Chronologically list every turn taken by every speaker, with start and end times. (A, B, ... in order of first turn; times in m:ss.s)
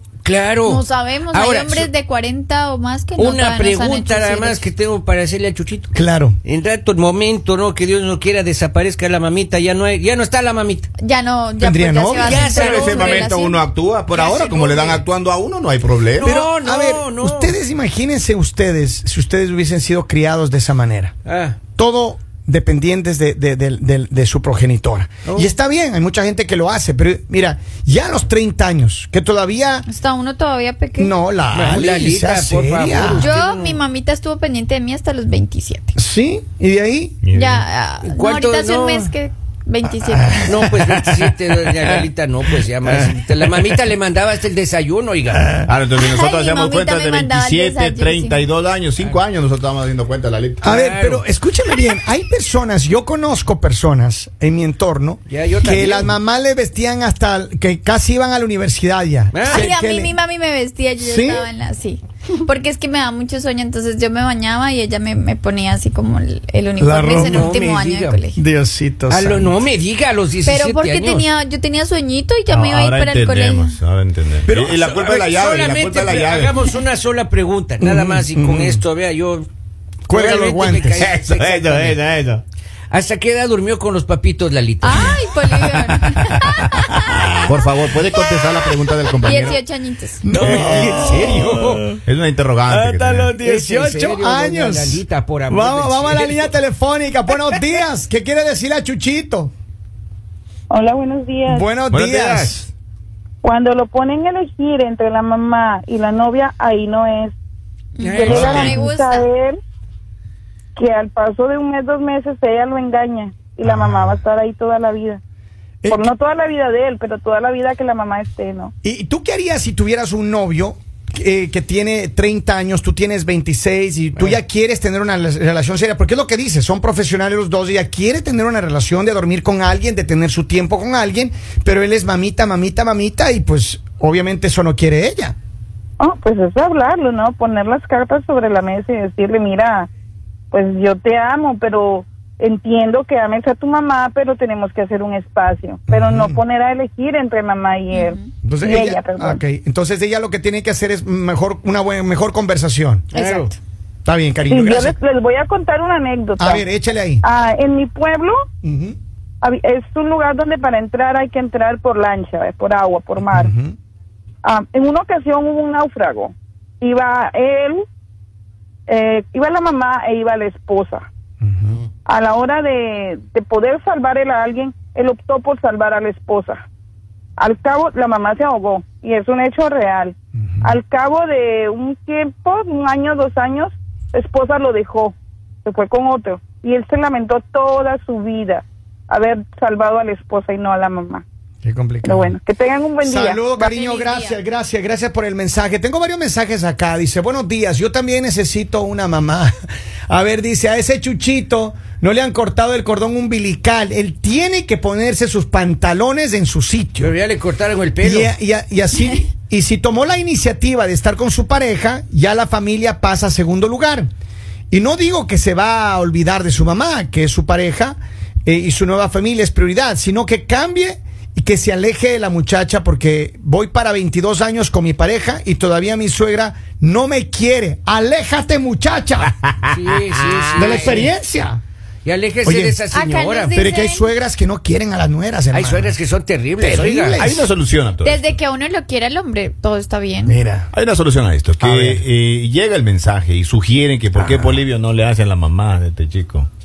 0:00.2-0:01.9 A
0:00.6-0:04.6 B
0:03.2-0:05.9 A
0:05.9-0:06.4 C
0:06.4-0:10.9 A
0:11.0-0:13.6 B
0:11.6-0:12.5 C
0:12.2-0:13.2 A
0:12.2-0:16.4 D
0:14.1-0:15.0 A
0:16.1-0:17.5 A
0:16.2-0:21.1 C
0:21.2-0:21.6 A
0:21.8-0:29.9 C
0:25.2-0:25.5 A
0:29.9-0:31.1 B
0:31.0-0:33.3 C
0:31.5-0:33.8 A
0:33.2-0:36.0 B
0:36.0-0:37.2 C
0:37.2-0:37.6 D
0:37.3-0:40.5 B
0:38.0-0:39.1 A
0:40.0-0:42.0 C
0:40.4-0:45.6 A
0:42.8-0:43.7 C
0:45.6-0:50.7 D
0:45.9-0:48.4 B
0:50.6-1:00.2 C
0:50.6-0:51.2 A
0:55.3-0:56.1 A
0:59.3-0:59.6 A
0:59.5-1:08.4 B
1:01.0-1:01.5 C
1:06.8-1:07.6 C
1:07.2-1:08.2 A
1:08.3-1:09.6 C
1:09.1-1:11.3 A
1:10.4-1:13.8 B
1:12.5-1:16.5 D
1:14.5-1:19.5 A
1:17.8-1:18.8 C
1:20.1-1:21.1 C
1:20.1-1:22.0 A
1:20.8-1:22.4 D
1:22.9-1:25.2 A
1:24.8-1:27.3 B
1:25.7-1:29.6 D
1:28.2-1:30.3 B
1:30.2-1:32.0 C
1:30.3-1:33.4 D
1:30.5-1:31.9 A
1:32.7-1:39.5 C
1:33.4-1:36.5 A
1:40.7-1:41.6 E
1:41.5-1:42.6 C
1:41.9-1:42.7 D
1:43.4-1:47.3 E
1:48.0-1:49.2 B
1:48.0-1:48.7 A
1:48.2-1:48.8 D
1:48.2-1:49.6 E
1:50.8-1:55.2 E
1:53.6-1:54.2 D
1:55.8-1:56.1 C
1:55.9-1:58.7 E
1:58.8-2:15.4 C
2:16.0-2:19.9 E
2:20.5-2:29.4 E
2:25.9-2:26.4 C
2:27.9-2:28.3 B
2:28.4-2:33.2 C
2:33.1-2:33.5 A
2:33.1-2:33.6 B
2:34.0-2:35.0 C
2:34.5-2:36.6 E
2:36.4-2:37.2 C
2:37.2-2:38.4 E
2:38.6-2:39.0 C
2:39.4-2:43.5 E
2:43.2-2:43.8 C
2:44.4-2:47.8 E
2:48.9-2:51.0 E
2:51.4-2:51.8 C
2:52.0-2:56.6 E
2:57.4-3:11.2 E
3:00.4-3:00.8 C
3:11.6-3:12.3 C
3:12.0-3:13.4 E
3:13.0-3:19.5 C
3:13.5-3:14.4 B
3:20.1-3:27.1 C
3:27.0-3:28.3 A
3:28.0-3:34.1 C
3:34.7-3:49.4 C
3:49.4-3:49.8 D
3:49.7-3:51.1 A
3:50.5-3:51.6 C
3:50.6-3:50.9 D
3:52.0-3:53.5 A
3:52.4-3:52.8 C
3:52.9-3:54.1 B
3:53.5-3:56.0 C
3:55.5-3:57.2 A
3:56.6-3:57.5 C
3:57.1-3:58.4 D
3:58.0-4:00.4 B
4:00.2-4:00.7 C
4:00.7-4:06.5 D
4:01.6-4:02.0 C
4:04.1-4:04.6 C